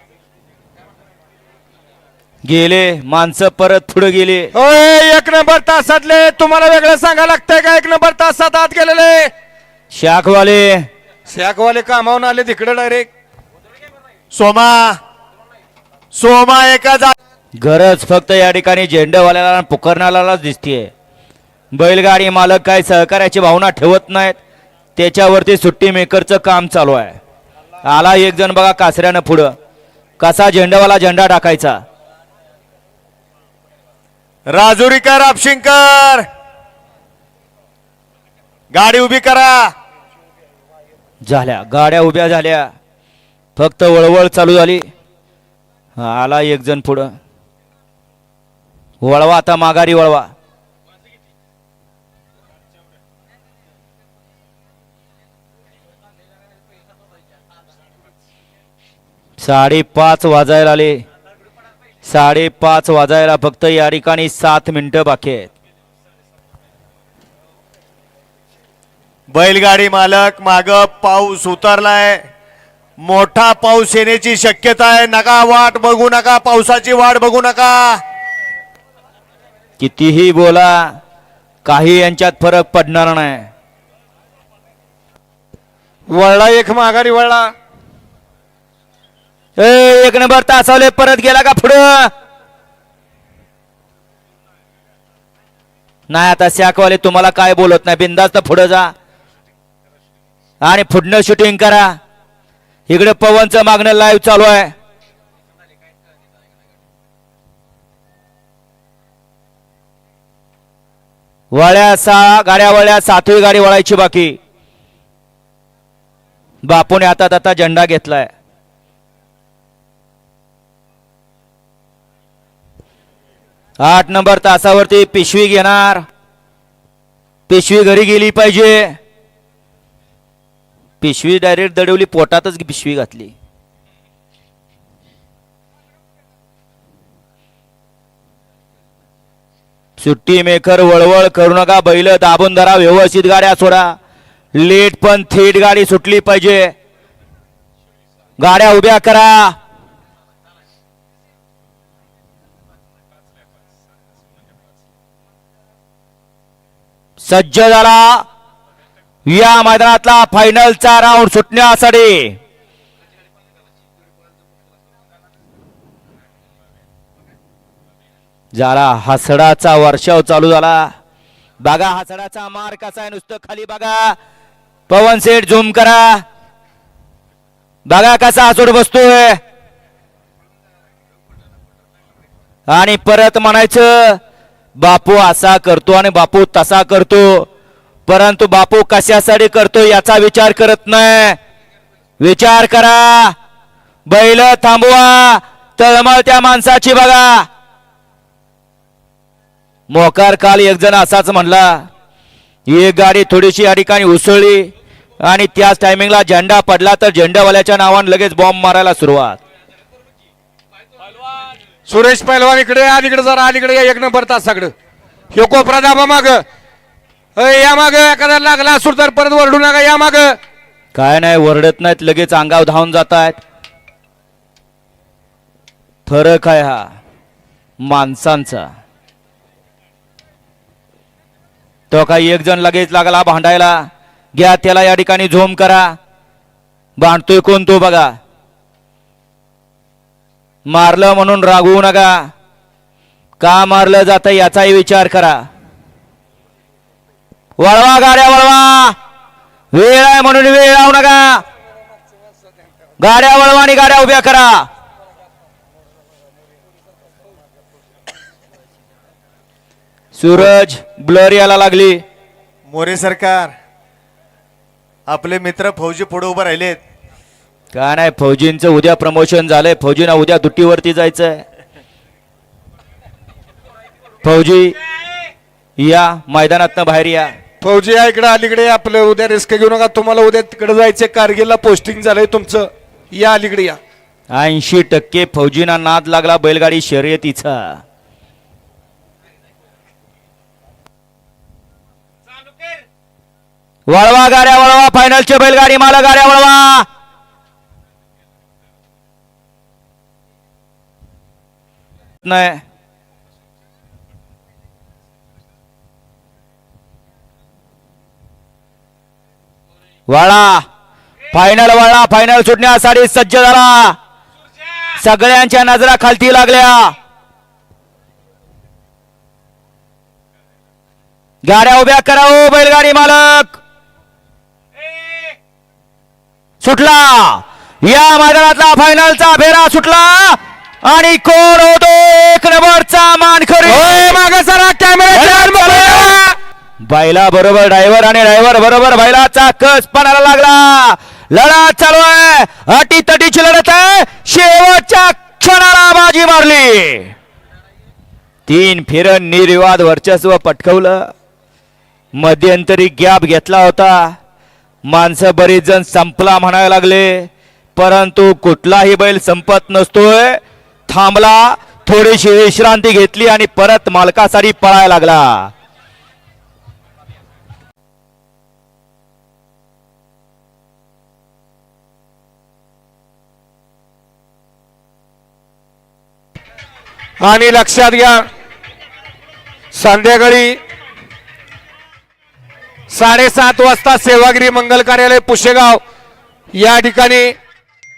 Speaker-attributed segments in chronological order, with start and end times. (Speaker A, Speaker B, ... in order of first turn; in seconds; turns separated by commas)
Speaker A: 2.4-4.5, Speaker B: 4.5-9.3, Speaker A: 9.9-10.9, Speaker B: 11.3-13.1, Speaker C: 14.3-15.0, Speaker C: 16.1-17.1, Speaker A: 17.6-20.9, Speaker A: 21.7-24.4, Speaker A: 24.9-27.2, Speaker A: 27.8-29.5, Speaker A: 30.2-31.8, Speaker C: 34.5-36.2, Speaker C: 38.7-39.7, Speaker A: 41.2-42.7, Speaker A: 43.5-44.9, Speaker A: 46.0-47.1, Speaker A: 49.0-50.3, Speaker A: 59.4-61.0, Speaker A: 62.0-65.5, Speaker C: 69.3-72.2, Speaker C: 73.0-78.0, Speaker A: 79.8-81.0, Speaker A: 81.6-83.5, Speaker B: 86.1-87.5, Speaker A: 89.6-92.1, Speaker A: 96.1-98.9, Speaker A: 100.6-102.0, Speaker A: 102.9-104.7, Speaker A: 111.5-114.4, Speaker A: 116.6-118.3, Speaker A: 123.8-126.0, Speaker A: 127.5-128.9, Speaker A: 131.0-133.3, Speaker A: 140.0-143.9, Speaker A: 144.5-146.7, Speaker A: 148.4-149.6, Speaker A: 157.2-158.2, Speaker A: 159.2-162.4, Speaker A: 168.5-170.9, Speaker A: 171.6-174.2, Speaker A: 174.9-176.2, Speaker A: 177.9-179.4, Speaker A: 182.7-184.2, Speaker A: 184.8-187.5, Speaker A: 188.1-191.4, Speaker A: 192.2-193.3, Speaker A: 194.1-197.5, Speaker A: 199.9-201.9, Speaker A: 202.7-204.7, Speaker A: 205.2-209.4, Speaker B: 211.8-214.7, Speaker B: 215.3-216.4, Speaker B: 217.3-220.4, Speaker A: 220.9-223.4, Speaker A: 226.1-226.8, Speaker A: 227.8-228.7, Speaker A: 231.9-235.9, Speaker A: 237.0-238.1, Speaker A: 240.7-242.3, Speaker A: 243.4-245.4, Speaker A: 247.6-248.9, Speaker A: 249.7-251.4, Speaker A: 253.0-254.7, Speaker A: 260.1-262.0, Speaker C: 262.7-263.5, Speaker C: 265.1-266.8, Speaker A: 267.7-271.4, Speaker A: 274.2-274.8, Speaker A: 275.8-277.3, Speaker B: 277.6-283.8, Speaker A: 284.3-287.8, Speaker A: 293.9-296.9, Speaker A: 302.2-302.6, Speaker A: 310.1-310.6, Speaker A: 311.3-314.0, Speaker A: 315.0-316.9, Speaker A: 321.4-323.6, Speaker A: 326.6-334.2, Speaker B: 333.6-336.3, Speaker A: 335.1-336.1, Speaker A: 336.9-347.1, Speaker A: 348.5-351.1, Speaker A: 352.1-354.1, Speaker A: 354.9-365.5, Speaker B: 377.2-378.2, Speaker B: 379.7-380.6, Speaker B: 382.9-385.8, Speaker B: 386.5-387.3